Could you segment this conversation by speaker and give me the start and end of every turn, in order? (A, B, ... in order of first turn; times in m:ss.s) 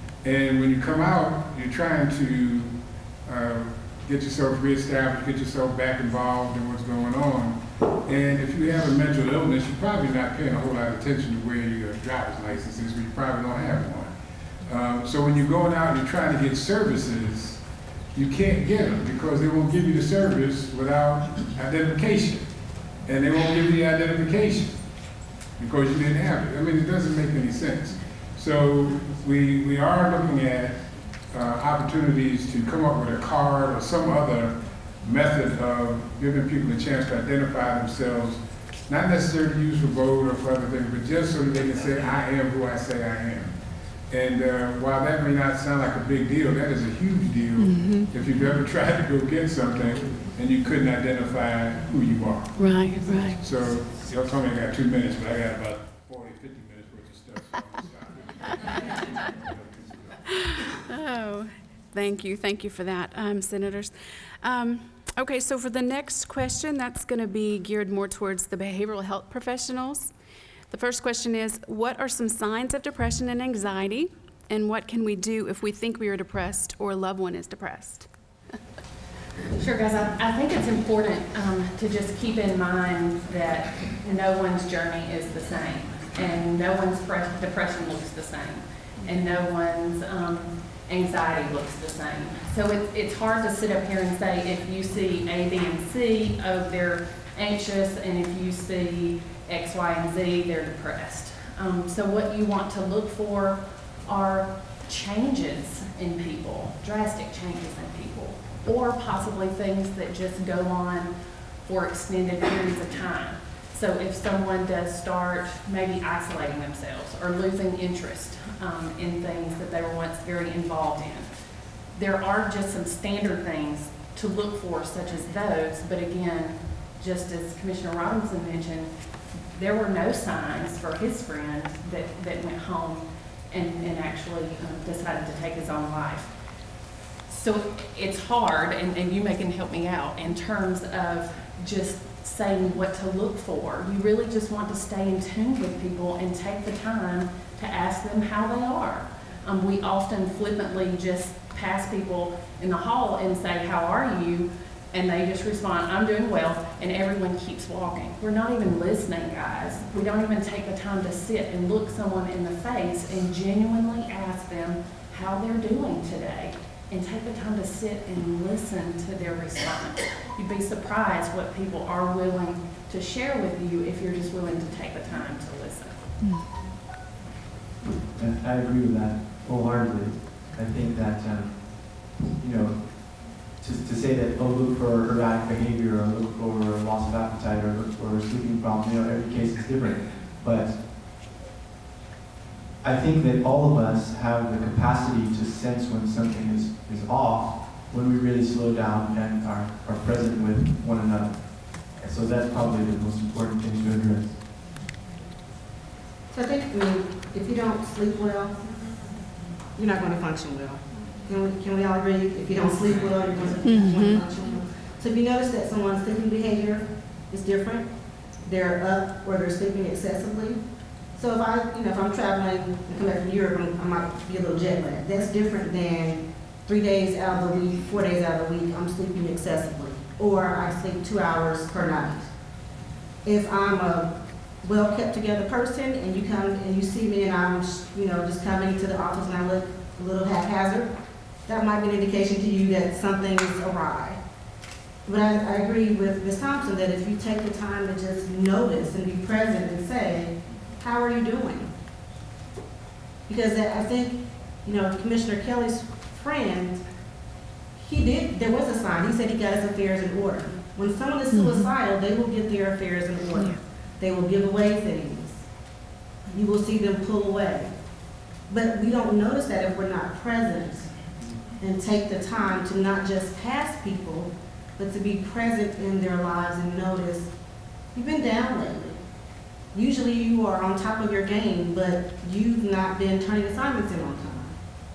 0:00.2-0:14.1 A
0:14.6-0:17.6 A
0:18.1-0:22.5 A
0:23.0-0:24.8 A
0:25.6-0:43.5 A
0:44.1-0:52.6 A
0:47.6-0:48.1 B
0:52.6-0:53.4 B
0:53.3-1:00.2 A
1:00.9-1:10.1 B
1:10.7-1:18.1 B
1:19.6-1:51.1 C
1:51.6-2:01.3 C
2:01.9-2:08.9 C
2:09.5-2:16.3 C
2:17.3-2:56.0 C
2:57.8-3:10.8 D
3:12.8-3:24.6 D
3:26.3-3:28.6 E
3:29.8-3:37.9 E
3:33.6-3:34.2 B
3:38.4-3:40.6 E
3:41.2-3:52.3 E
3:53.2-4:00.9 E
4:01.4-4:04.2 E
4:05.0-4:11.7 E
4:13.3-4:16.8 E
4:17.8-4:25.4 E
4:21.3-4:21.7 B
4:23.3-4:23.6 B
4:26.3-4:27.7 E
4:28.5-4:30.9 E
4:31.6-4:37.3 E
4:37.9-4:39.0 E
4:39.7-4:44.6 E